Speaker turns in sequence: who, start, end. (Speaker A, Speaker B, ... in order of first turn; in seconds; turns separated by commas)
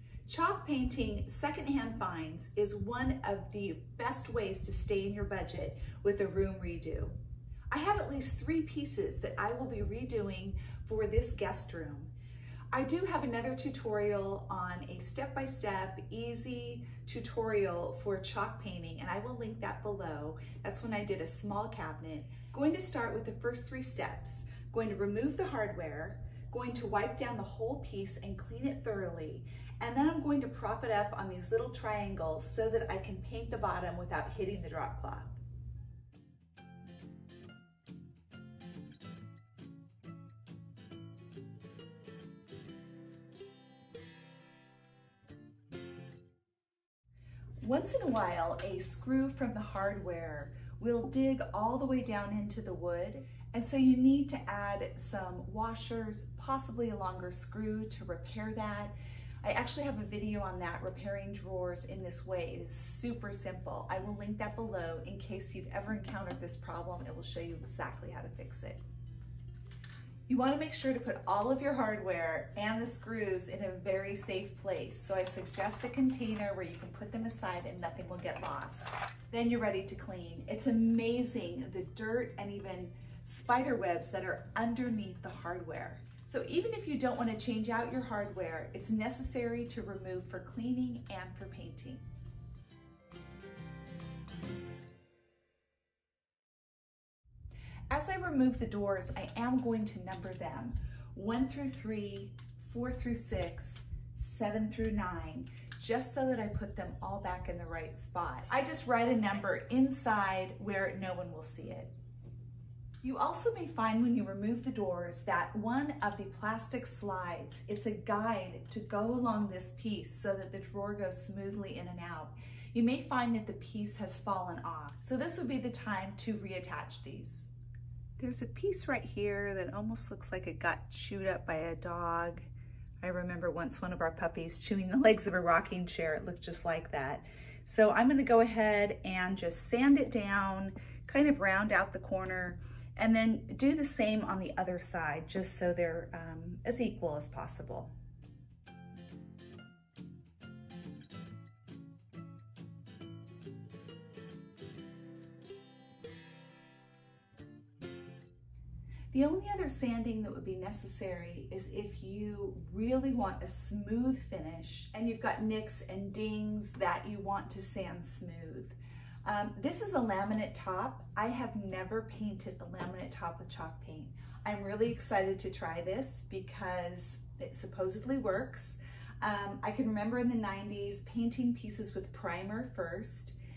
Speaker A: 0.3-7.2, Speaker A: 7.7-12.1, Speaker A: 12.7-35.4, Speaker A: 47.6-68.8, Speaker A: 70.3-92.1, Speaker A: 97.9-111.9, Speaker A: 113.0-127.5, Speaker A: 128.2-132.5, Speaker A: 133.0-147.9, Speaker A: 159.1-183.3